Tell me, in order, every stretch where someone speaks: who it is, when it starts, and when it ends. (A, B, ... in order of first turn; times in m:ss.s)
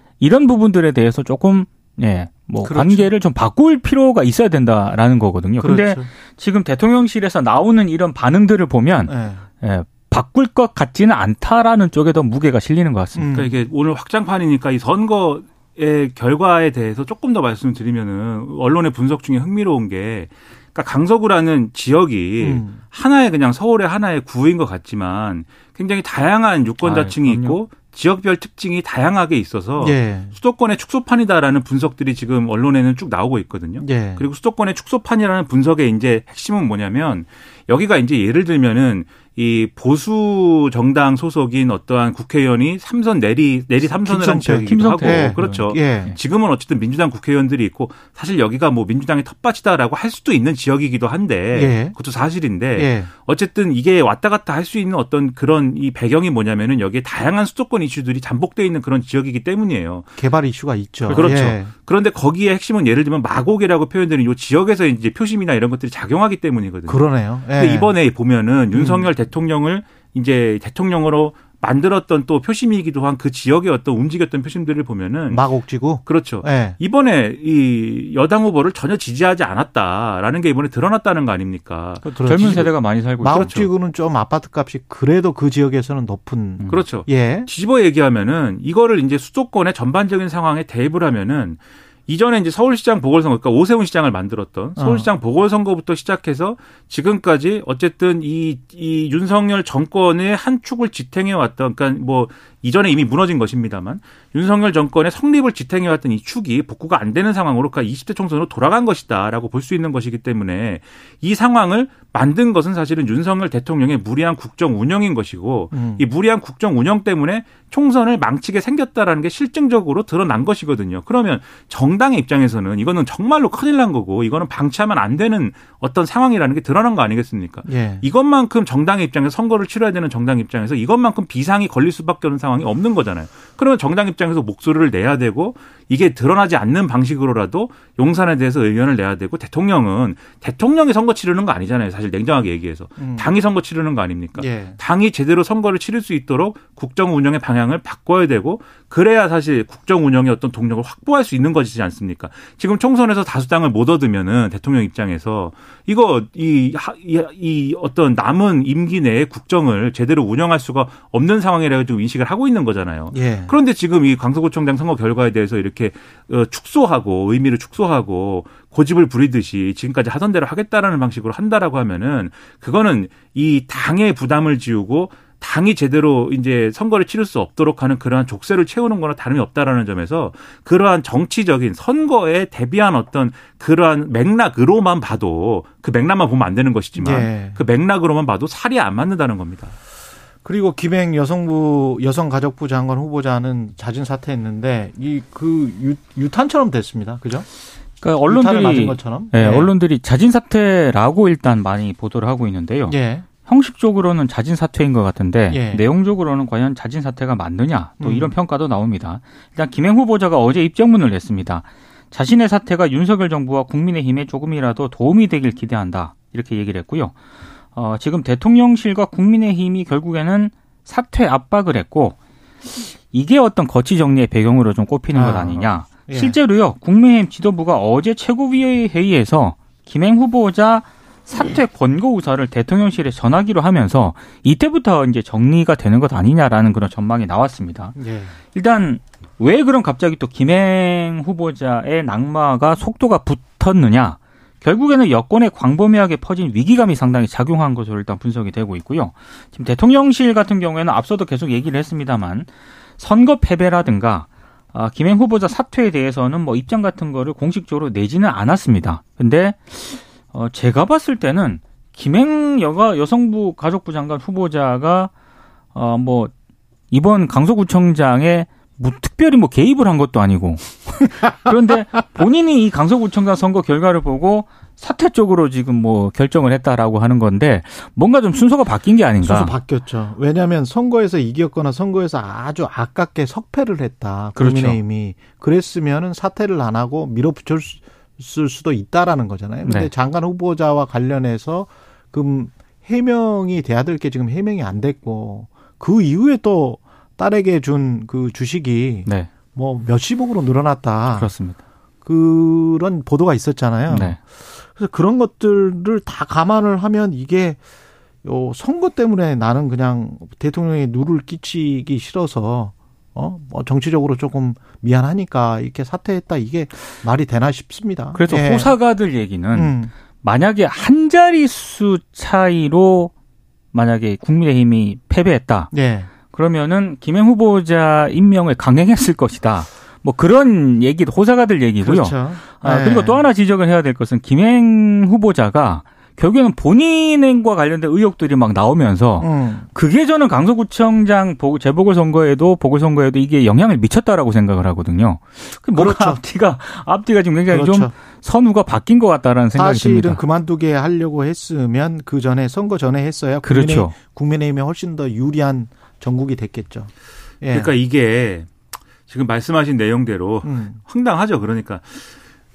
0:00.2-0:13.3 A
0:02.6-0:03.1 B
0:05.6-0:06.1 B
0:09.1-0:09.5 B
0:13.2-0:13.6 B
0:13.3-1:00.1 C
0:22.4-0:22.8 B
0:26.8-0:27.6 A
0:29.8-0:30.3 B
0:33.8-0:34.3 B
0:43.9-0:46.1 B
0:44.7-0:46.1 A
0:51.5-0:52.0 B
0:52.8-0:53.1 B
1:00.2-1:01.7 B
1:01.1-1:01.4 A
1:01.1-1:15.5 C
1:06.9-1:07.9 B
1:08.7-1:09.1 B
1:15.3-1:16.8 B
1:16.0-1:22.7 C
1:22.1-1:27.5 B
1:22.2-1:23.7 A
1:26.7-3:09.8 C
1:34.8-1:35.1 B
1:55.7-1:56.0 B
2:07.7-2:08.0 B
2:23.0-2:23.3 B
2:24.4-2:24.8 B
2:43.1-2:43.6 B
3:07.0-3:07.6 B
3:10.4-3:17.5 B
3:18.0-3:37.2 A
3:18.3-3:19.7 B
3:22.9-3:23.3 B
3:25.5-3:25.8 B
3:28.0-3:28.3 B
3:37.8-3:58.0 A
3:45.1-3:46.4 B
3:58.0-3:58.4 B
3:58.5-4:25.1 A
4:25.7-4:26.3 A
4:26.9-4:39.5 A
4:39.2-5:01.3 B
4:44.4-4:44.8 A
4:49.6-4:49.9 A
5:01.1-5:01.6 A
5:02.0-5:07.6 B
5:03.9-5:04.2 A
5:08.2-5:18.8 B
5:18.1-5:23.1 A
5:19.5-5:19.9 B
5:23.7-5:25.7 A
5:25.7-5:26.1 B
5:26.3-5:50.2 A
5:31.8-5:33.2 B
5:39.2-5:39.7 B
5:45.8-5:46.2 B
5:47.5-5:47.9 B
5:49.5-5:57.7 B
5:53.4-5:54.0 A
5:57.5-5:58.5 C
5:59.1-6:02.1 C
6:00.4-6:00.8 B